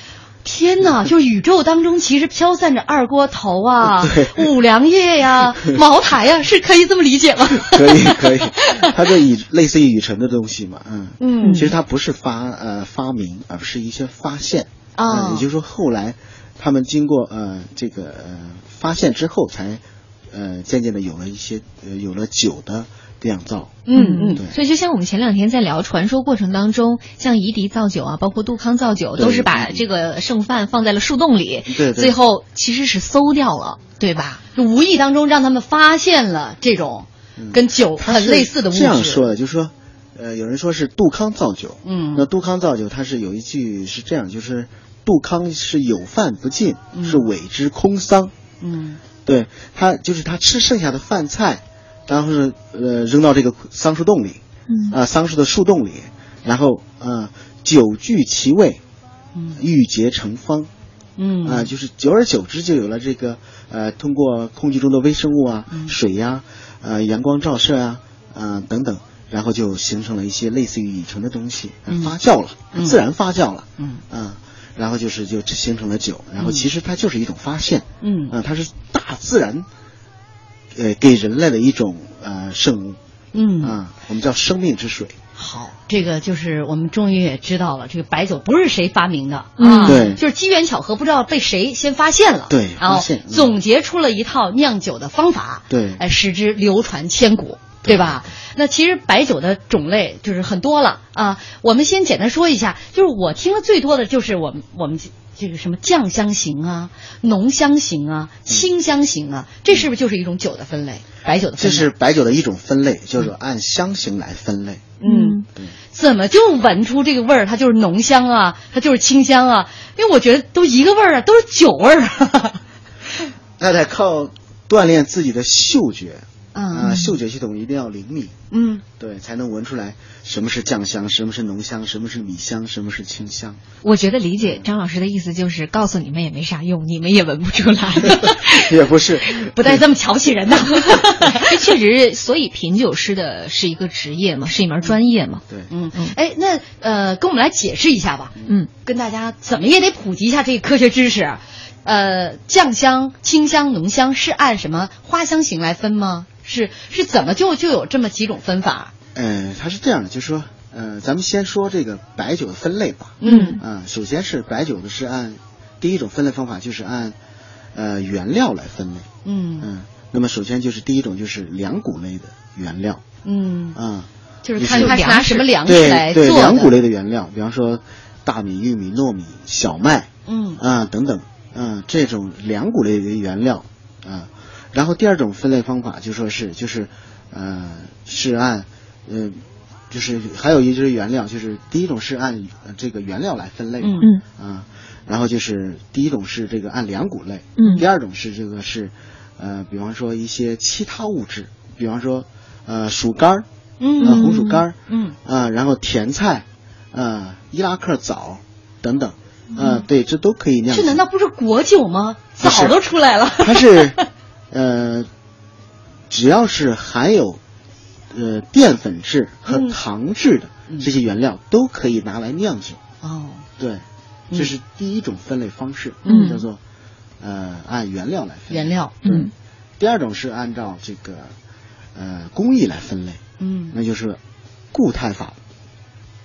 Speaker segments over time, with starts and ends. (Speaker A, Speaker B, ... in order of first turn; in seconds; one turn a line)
Speaker A: 0.5-8.9
Speaker B: 4.0-4.5
Speaker B: 7.5-23.8
Speaker A: 11.2-11.7
Speaker C: 11.4-11.7
Speaker A: 15.0-15.5
Speaker A: 23.9-24.4
Speaker C: 23.9-34.4
Speaker B: 29.2-29.9
Speaker B: 31.7-32.2
Speaker A: 34.5-39.3
Speaker B: 37.4-48.3
Speaker A: 41.9-42.3
Speaker A: 46.9-47.2
Speaker A: 48.6-49.0
Speaker B: 49.2-58.8
Speaker C: 54.7-55.0
Speaker A: 59.4-59.6
Speaker B: 59.6-60.7
Speaker A: 61.2-61.7
Speaker B: 61.4-79.7
Speaker A: 71.9-72.1
Speaker A: 72.7-73.0
Speaker A: 76.4-76.7
Speaker A: 78.0-78.3
Speaker B: 80.7-83.0
Speaker A: 83.3-83.8
Speaker B: 83.6-85.2
Speaker A: 85.4-111.9
Speaker C: 89.6-90.1
Speaker B: 89.8-90.2
Speaker B: 92.5-93.6
Speaker B: 95.7-96.0
Speaker B: 97.8-98.2
Speaker B: 111.6-114.9
Speaker A: 115.0-115.4
Speaker C: 115.0-115.4
Speaker A: 115.9-122.6
Speaker B: 123.6-128.3
Speaker A: 126.5-127.1
Speaker A: 128.5-128.8
Speaker B: 129.0-133.6
Speaker C: 133.8-138.7
Speaker B: 134.4-134.7
Speaker B: 138.1-139.8
Speaker A: 139.5-141.5
Speaker C: 141.3-145.4
Speaker A: 145.7-158.9
Speaker B: 159.2-167.2
Speaker A: 163.2-163.6
Speaker C: 163.2-163.6
Speaker B: 167.7-169.1
Speaker A: 169.2-169.7
Speaker B: 169.6-173.0
Speaker A: 173.2-173.8
Speaker B: 173.8-175.1
Speaker A: 174.4-176.7
Speaker C: 174.6-175.5
Speaker B: 175.6-189.4
Speaker A: 180.3-180.6
Speaker B: 189.9-203.5
Speaker A: 193.8-194.1
Speaker C: 197.6-197.8
Speaker A: 203.8-204.3
Speaker C: 204.0-204.6
Speaker B: 204.0-211.0
Speaker A: 204.9-205.2
Speaker A: 210.7-214.0
Speaker B: 212.4-212.8
Speaker B: 213.4-214.0
Speaker B: 214.5-215.1
Speaker B: 216.1-217.4
Speaker B: 218.1-222.8
Speaker A: 219.5-219.8
Speaker A: 223.0-223.4
Speaker B: 223.6-226.6
Speaker A: 226.1-226.3
Speaker C: 226.1-226.4
Speaker B: 227.2-231.3
Speaker A: 228.5-228.9
Speaker C: 229.0-229.3
Speaker B: 231.9-234.2
Speaker A: 233.4-233.8
Speaker B: 234.7-235.4